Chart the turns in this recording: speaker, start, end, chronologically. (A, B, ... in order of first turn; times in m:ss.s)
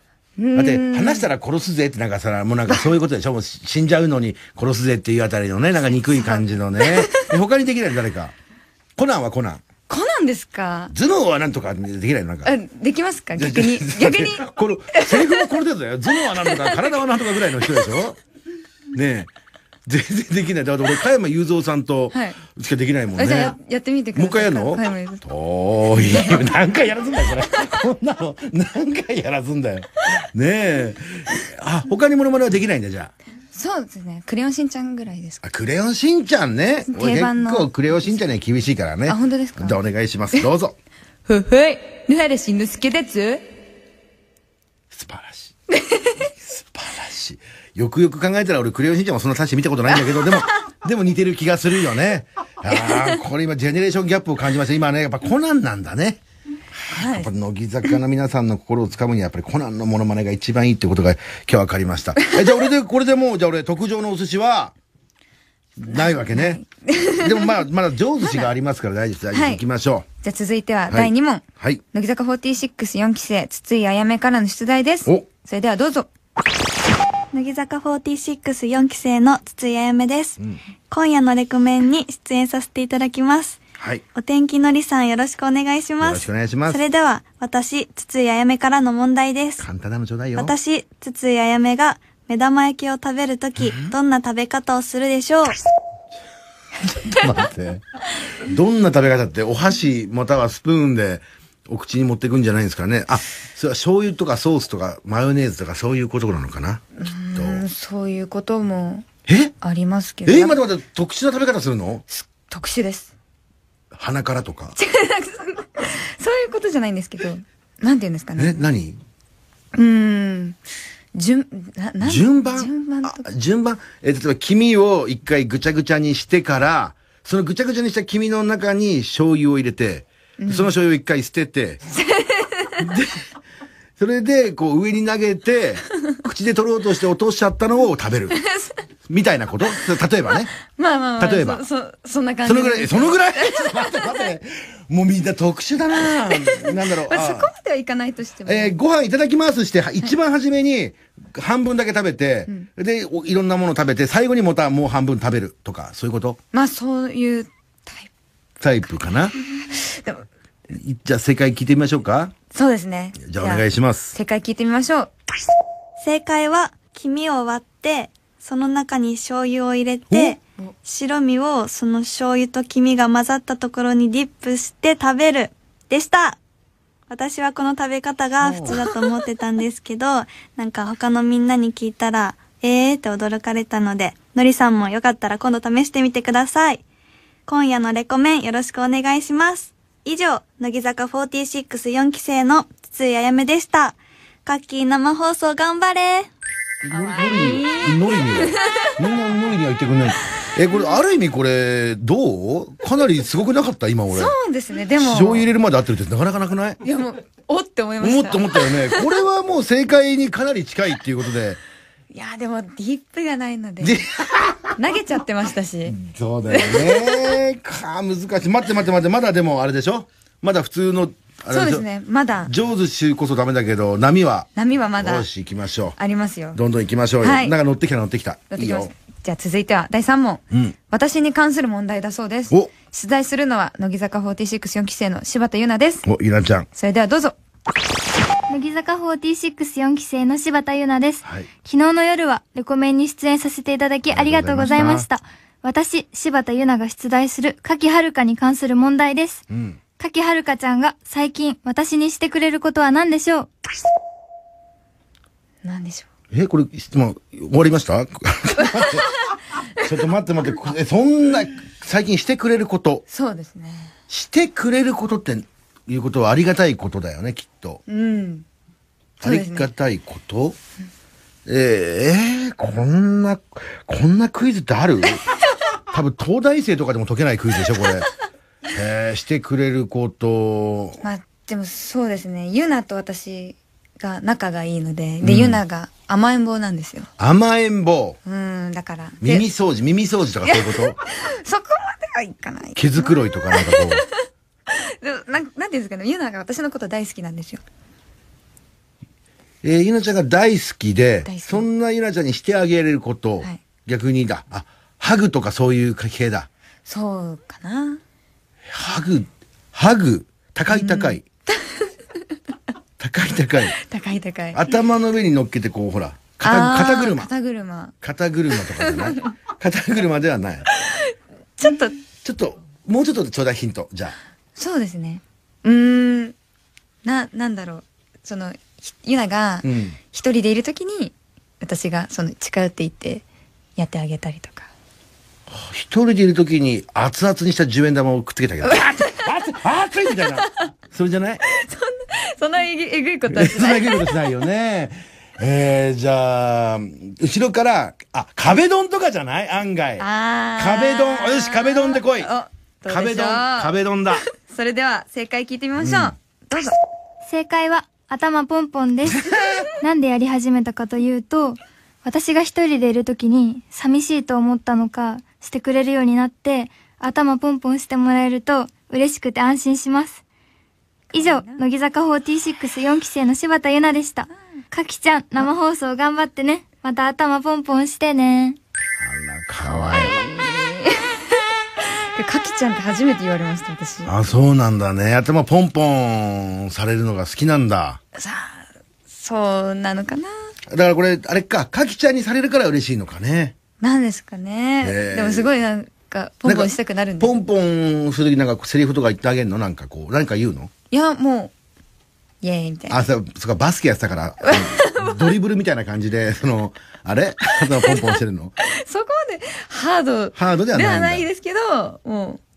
0:00.4-0:01.3 A
0:00.6-0:08.3 B
0:06.1-0:07.3 A
0:09.0-0:09.6 B
0:09.9-0:10.9 A
0:10.9-0:12.5 B
0:12.4-0:15.4 A
0:13.4-0:18.2 B
0:18.9-0:19.3 B
0:19.9-0:23.6 B
0:22.1-0:22.4 A
0:23.2-0:25.2 A
0:24.2-0:33.1 B
0:26.0-0:26.4 A
0:33.5-0:35.4 A
0:35.4-0:40.8 B
0:36.9-0:37.8 A
0:39.1-0:39.8 A
0:41.3-0:43.5 A
0:44.9-0:45.5 B
0:45.7-0:46.2 A
0:46.4-0:56.2 B
0:52.7-0:53.2 A
0:56.8-1:04.7 B
0:56.9-0:57.3 A
1:05.8-1:06.6 B
1:05.9-1:07.6 A
1:07.2-1:10.1 B
1:09.3-1:09.6 A
1:10.2-1:16.1 A
1:10.9-1:11.8 B
1:17.3-1:20.4 C
1:20.9-1:23.6 C
1:23.8-1:24.0 B
1:24.2-1:29.6 C
1:26.0-1:26.8 B
1:29.6-1:30.5 B
1:30.4-1:35.6 C
1:33.6-1:33.9 B
1:36.9-1:37.8 B
1:38.4-1:47.6 B
1:47.0-1:49.1 A
1:49.3-1:49.6 B
1:49.6-1:50.6 A
1:50.2-1:52.0 B
1:52.1-1:53.1 A
1:53.9-1:54.8 B
1:54.8-1:58.6 A
1:58.4-1:59.0 B
1:59.8-2:00.6 A
2:01.1-2:03.3 A
2:02.0-2:11.8 B
2:10.4-2:10.7 A
2:11.9-2:12.8 A
2:12.8-2:13.2 B
2:14.0-2:18.4 B
2:18.4-2:18.7 A
2:19.1-2:20.5 B
2:20.7-2:24.2 A
2:21.2-2:21.6 B
2:22.5-2:27.5 B
2:26.3-2:28.8 A
2:28.4-2:36.4 B
2:36.5-2:38.1 A
2:38.6-2:39.3 B
2:39.7-2:40.2 A
2:40.7-2:42.3 B
2:42.5-2:45.1 A
2:43.2-2:44.2 B
2:46.0-2:56.4 C
2:50.1-2:50.4 B
2:57.1-3:06.8 C
2:58.4-2:58.8 B
3:07.5-3:16.3 C
3:16.8-3:18.8 A
3:16.8-3:24.4 B
3:24.1-3:25.5 A
3:25.0-3:26.8 B
3:26.8-3:29.1 A
3:28.0-3:31.6 B
3:32.1-3:34.0 A
3:33.8-3:34.7 B
3:34.8-3:36.0 A
3:35.9-3:41.9 B
3:36.5-3:37.4 A
3:41.5-3:42.5 A
3:42.5-3:46.0 B
3:44.6-3:45.3 A
3:46.0-3:46.6 A
3:46.5-3:48.9 B
3:47.2-3:47.6 A
3:48.5-3:56.1 A
3:56.0-3:56.7 B
3:56.8-3:57.4 A
3:58.5-4:09.4 D
4:04.1-4:05.1 B
4:09.5-4:09.8 B
4:10.0-4:13.5 D
4:15.6-4:16.1 A
4:16.3-4:19.1 B
4:19.8-4:23.0 B
4:23.1-4:23.9 A
4:24.1-4:27.8 B
4:27.9-4:28.5 A
4:29.2-4:30.6 B
4:29.2-4:29.7 A
4:31.5-4:35.2 B
4:35.9-4:38.1 B
4:38.7-4:41.0 B
4:41.0-4:47.1 A
4:45.2-4:45.6 B
4:47.2-4:48.2 B
4:48.2-4:49.5 A
4:49.2-4:51.0 B
4:50.5-4:54.0 A
4:52.8-4:54.0 B
4:54.7-4:57.6 A
4:59.6-5:06.5 B
5:01.3-5:01.7 A
5:06.9-5:08.0 A
5:08.7-5:11.2 B
5:10.7-5:11.9 A
5:13.0-5:13.8 B
5:13.8-5:14.6 A
5:14.5-5:17.3 B
5:16.4-5:17.9 A
5:18.0-5:20.7 B
5:18.8-5:19.2 A
5:21.6-5:22.0 A
5:22.2-5:24.2 B
5:24.6-5:26.4 A
5:27.0-5:33.2 A
5:29.6-5:30.0 B
5:33.8-5:34.7 A
5:35.5-5:41.4 B
5:38.7-5:39.0 A
5:41.5-5:44.2 A
5:43.3-5:50.0 B
5:50.0-5:53.7 A
5:50.6-5:52.3 B
5:52.9-5:54.2 B
5:54.4-5:56.8 A
5:55.8-5:56.1 B
5:57.3-5:59.2 D
5:59.8-6:10.2 D
6:11.1-6:18.6 D
6:11.1-6:11.6 A
6:19.0-6:20.2 B
6:19.6-6:24.2 A
6:24.1-6:28.0 B
6:28.2-6:30.3 A
6:30.7-6:33.6 B
6:33.8-6:37.4 A
6:34.8-6:35.5 B
6:36.4-6:40.7 B
6:40.9-6:41.5 A
6:42.4-6:43.0 A
6:42.9-6:48.5 B
6:44.4-6:45.1 A
6:47.8-6:52.4 A
6:50.4-6:51.2 B